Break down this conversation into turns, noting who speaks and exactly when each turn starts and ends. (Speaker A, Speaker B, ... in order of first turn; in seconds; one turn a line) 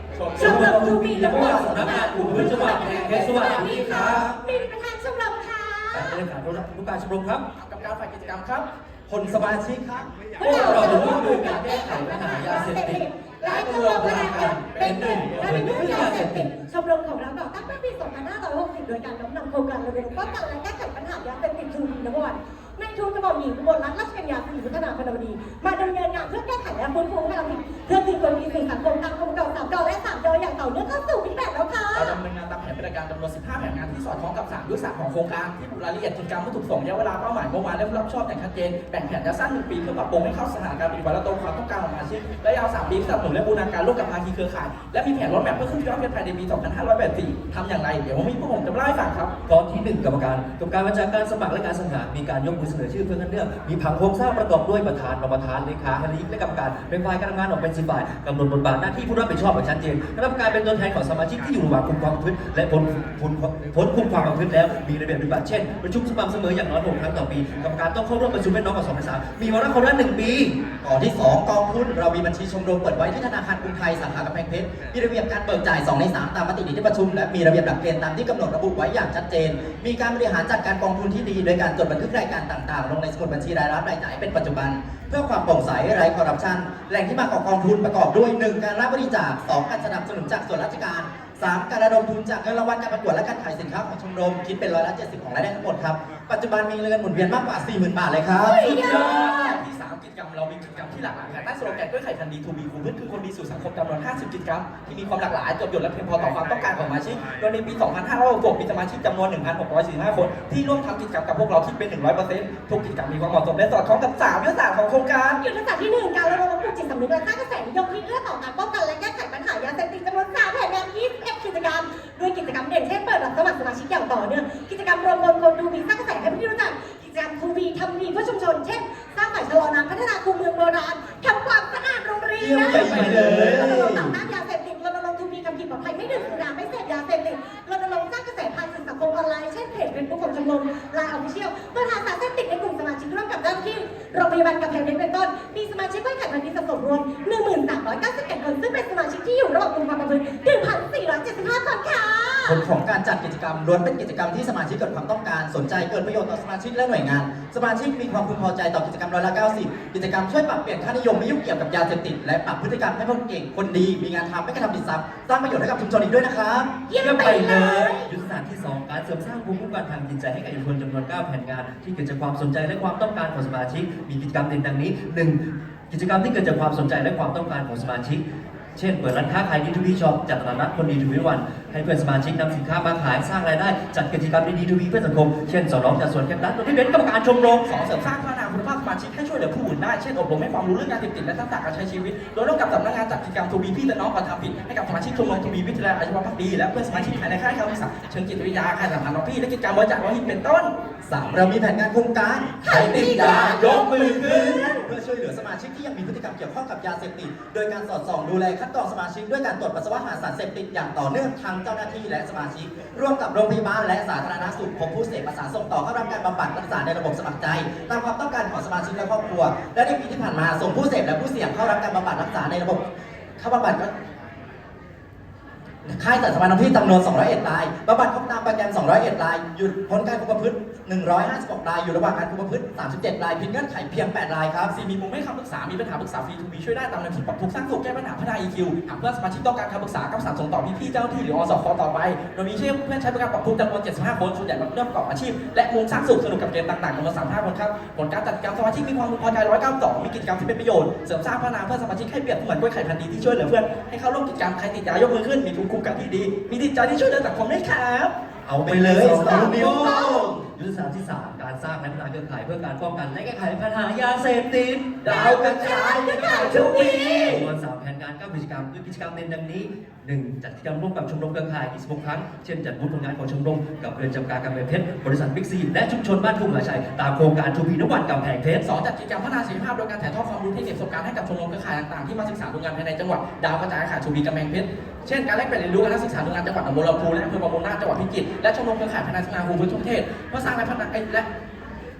Speaker A: 0.1-4.3
Speaker B: 0.4-6.2
Speaker C: 0.4-4.3
Speaker D: 1.1-2.6
Speaker C: 5.9-7.4
Speaker A: 7.6-8.7
Speaker D: 9.1-10.1
Speaker B: 10.4-32.2
Speaker C: 10.4-13.0
Speaker D: 10.6-11.3
Speaker A: 13.4-16.2
Speaker C: 14.0-16.5
Speaker A: 31.9-49.3
Speaker C: 49.5-70.6
Speaker D: 70.8-98.7
Speaker B: 98.4-99.6
Speaker A: 98.5-115.4
Speaker B: 115.4-152.7
Speaker D: 132.4-134.1
Speaker A: 132.6-133.6
Speaker D: 152.4-166.7
Speaker B: 166.9-168.1
Speaker C: 167.0-175.4
Speaker C: 175.9-178.2
Speaker C: 178.7-187.6
Speaker A: 187.6-200.7
Speaker D: 201.0-222.8
Speaker A: 202.6-204.7
Speaker B: 202.6-204.8
Speaker D: 223.4-223.9
Speaker D: 225.8-234.7
Speaker A: 234.7-258.1
Speaker C: 258.4-265.6
Speaker D: 258.6-260.4
Speaker B: 259.2-260.3
Speaker A: 265.0-267.5
Speaker B: 265.1-267.4
Speaker D: 266.1-266.7
Speaker C: 267.2-278.6
Speaker A: 278.6-291.3